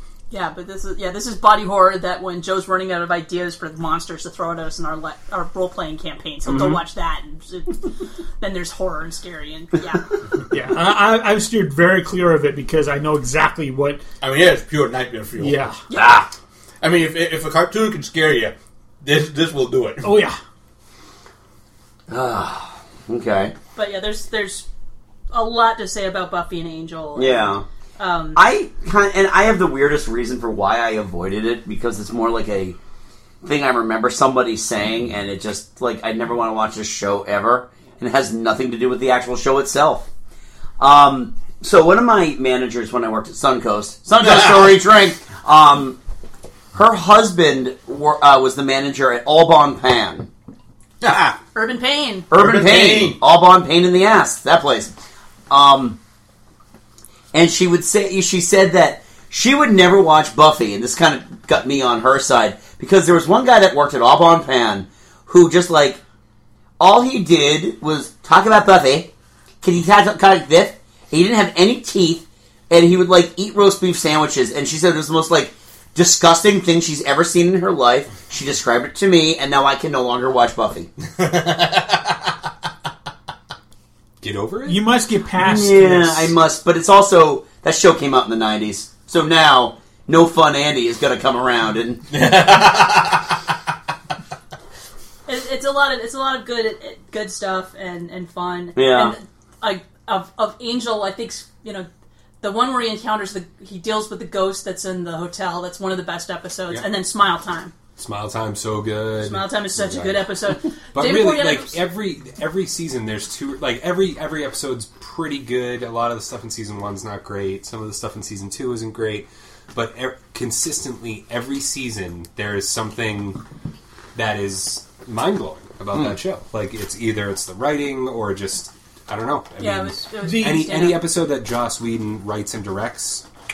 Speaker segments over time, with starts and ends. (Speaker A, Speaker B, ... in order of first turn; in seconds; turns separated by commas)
Speaker A: 0.3-10.1, Speaker B: 6.5-6.8, Speaker B: 10.5-14.0, Speaker C: 14.2-15.7, Speaker B: 15.4-15.8, Speaker A: 15.9-16.1, Speaker D: 15.9-16.3, Speaker C: 16.8-20.1, Speaker B: 20.0-20.4, Speaker D: 22.1-23.5, Speaker A: 23.7-24.6, Speaker A: 25.3-28.4, Speaker D: 27.1-27.6, Speaker D: 28.3-32.8, Speaker D: 33.4-40.1, Speaker D: 40.8-46.0, Speaker C: 44.2-44.8, Speaker D: 46.7-50.3, Speaker C: 51.0-51.4, Speaker A: 51.5-52.3, Speaker D: 52.3-54.9, Speaker C: 52.3-53.2, Speaker D: 55.5-56.0, Speaker D: 57.3-66.0, Speaker D: 66.8-69.1, Speaker D: 69.6-80.9, Speaker C: 81.2-82.1, Speaker E: 84.2-84.9, Speaker B: 84.7-86.3, Speaker D: 85.4-92.0, Speaker C: 92.1-93.3, Speaker A: 95.3-101.9, Speaker D: 98.7-99.1, Speaker A: 102.4-107.7, Speaker E: 108.0-123.4, Speaker A: 109.2-111.7, Speaker E: 124.1-133.2, Speaker A: 129.6-131.0, Speaker B: 130.2-130.7